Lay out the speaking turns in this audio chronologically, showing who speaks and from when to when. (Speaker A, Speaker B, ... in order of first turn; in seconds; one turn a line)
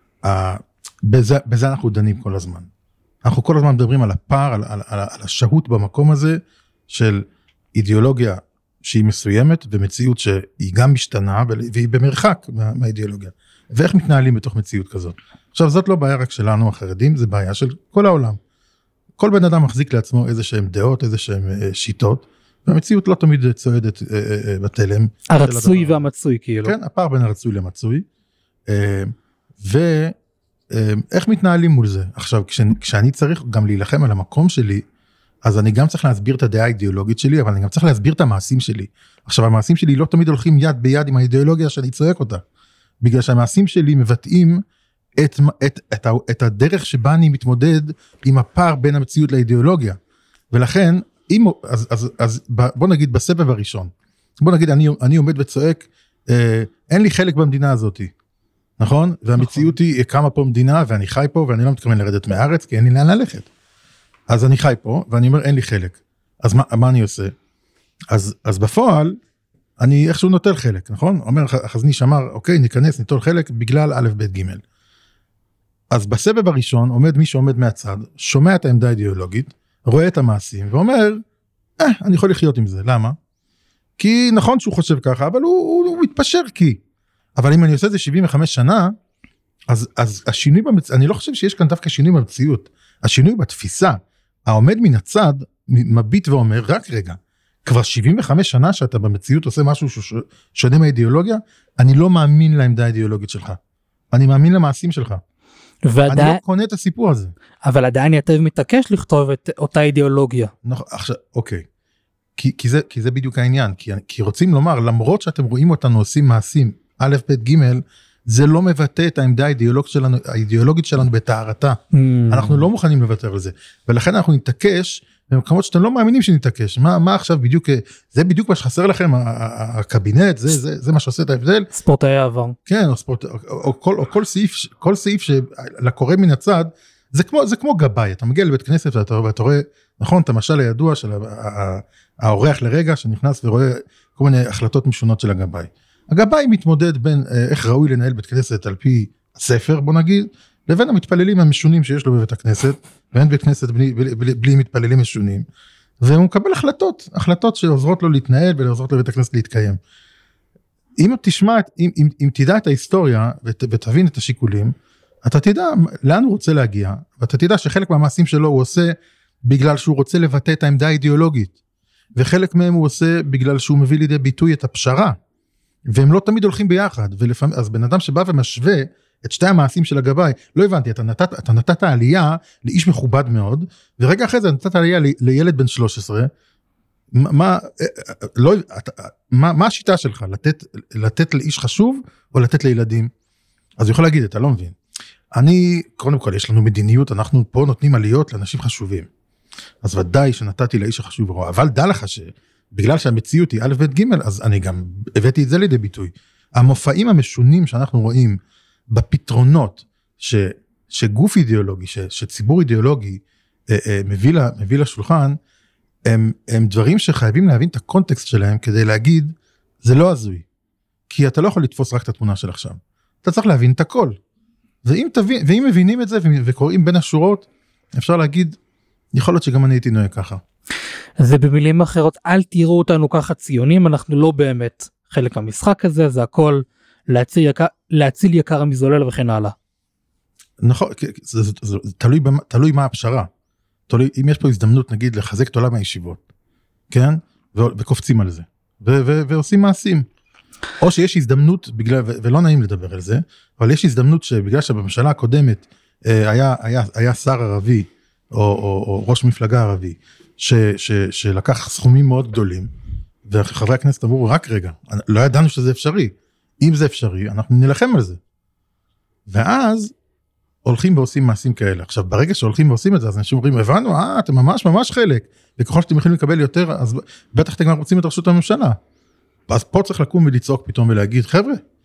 Speaker A: 0.2-2.7
Speaker A: 3.2-18.4
Speaker A: 19.2-26.0
Speaker B: 25.3-26.7
Speaker A: 26.6-28.1
Speaker A: 28.7-30.1
Speaker A: 30.7-34.8
Speaker A: 35.4-42.4
Speaker A: 43.0-44.6
Speaker A: 45.2-50.0
Speaker A: 50.5-58.1
Speaker A: 58.8-63.5
Speaker B: 59.4-59.7
Speaker A: 64.3-67.3
Speaker A: 68.1-69.2
Speaker A: 69.8-74.6
Speaker A: 75.9-81.2
Speaker A: 81.8-83.2
Speaker A: 84.0-86.8
Speaker A: 87.4-88.9
Speaker A: 89.7-103.6
Speaker A: 104.1-105.2
Speaker B: 105.8-106.4
Speaker A: 106.1-107.3
Speaker B: 107.6-110.5
Speaker A: 110.6-111.7
Speaker A: 112.4-121.8
Speaker B: 121.9-122.6
Speaker A: 122.3-131.7
Speaker B: 131.7-132.5
Speaker A: 132.7-155.4
Speaker A: 156.0-159.8
Speaker A: 161.0-164.7
Speaker A: 165.2-171.5
Speaker A: 172.2-175.2
Speaker A: 175.9-186.3
Speaker A: 187.1-193.1
Speaker A: 193.8-194.8
Speaker A: 195.3-199.1
Speaker A: 199.8-208.4
Speaker A: 208.9-215.4
Speaker A: 216.1-220.4
Speaker A: 221.1-224.2
Speaker A: 224.8-228.6
Speaker A: 229.1-230.4
Speaker B: 231.2-239.5
Speaker A: 240.6-243.3
Speaker A: 243.9-246.2
Speaker A: 246.9-250.0
Speaker A: 250.8-262.7
Speaker A: 263.2-268.2
Speaker A: 269.3-269.9
Speaker A: 270.6-278.8
Speaker A: 279.5-281.6